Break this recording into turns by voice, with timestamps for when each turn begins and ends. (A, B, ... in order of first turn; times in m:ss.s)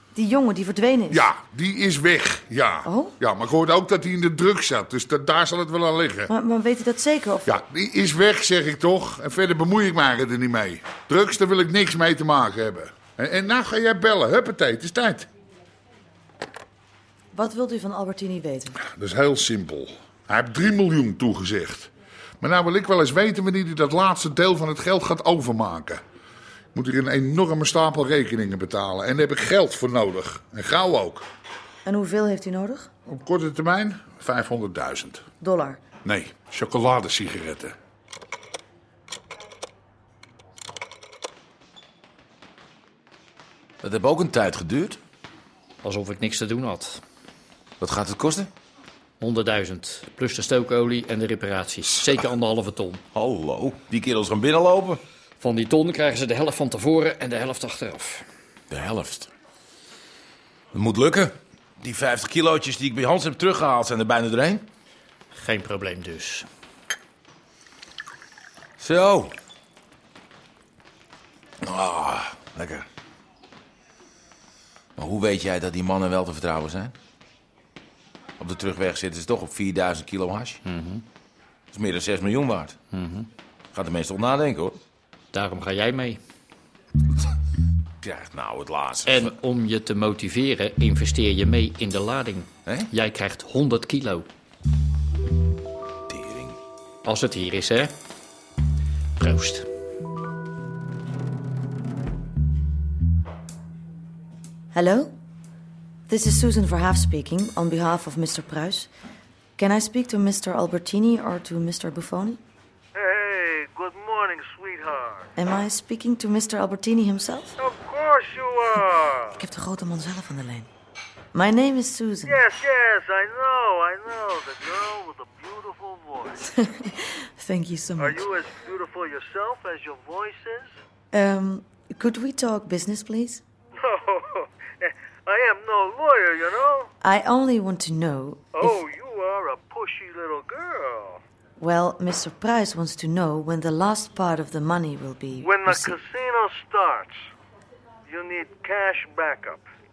0:00.1-0:01.3 A
0:01.1-0:06.3 B
0:02.8-0:03.2 A
0:06.3-0:07.6 A
0:07.4-0:15.3 B
0:17.3-0:18.8 A
0:18.8-0:26.0 B
0:26.7-0:31.2 B
0:31.8-0:32.9 A
0:33.1-0:35.2 B
0:35.4-0:35.8 A
0:36.0-0:37.7 B
0:43.8-0:45.0 C
0:45.8-0:47.0 D
0:47.8-0:48.5 C
0:49.2-0:53.0 D
0:53.1-0:55.0 C
0:55.4-0:58.2 D
0:58.7-0:59.3 C
1:00.7-1:04.6 C
1:05.3-1:06.5 D
1:08.8-1:09.3 C
1:11.6-1:12.8 C
1:15.0-1:16.9 C
1:18.4-1:20.6 C
1:20.6-1:21.0 D
1:21.7-1:22.9 C
1:22.9-1:23.3 D
1:23.7-1:24.8 C
1:25.3-1:26.2 D
1:28.0-1:29.4 C
1:29.0-1:34.3 D
1:36.1-1:36.6 C
1:37.0-1:37.9 D
1:39.2-1:39.6 D
1:44.7-1:45.1 A
1:46.1-1:48.9 A
1:49.6-1:52.4 A
1:53.0-1:55.3 E
1:55.4-1:57.5 A
1:57.6-1:59.2 E
1:59.4-2:00.7 A
2:01.3-2:02.4 A
2:02.2-2:06.4 E
2:06.4-2:08.4 A
2:08.0-2:10.7 E
2:11.1-2:13.4 A
2:13.8-2:16.9 E
2:17.0-2:18.8 A
2:18.5-2:21.2 E
2:21.6-2:26.0 A
2:25.4-2:27.2 E
2:28.1-2:29.6 E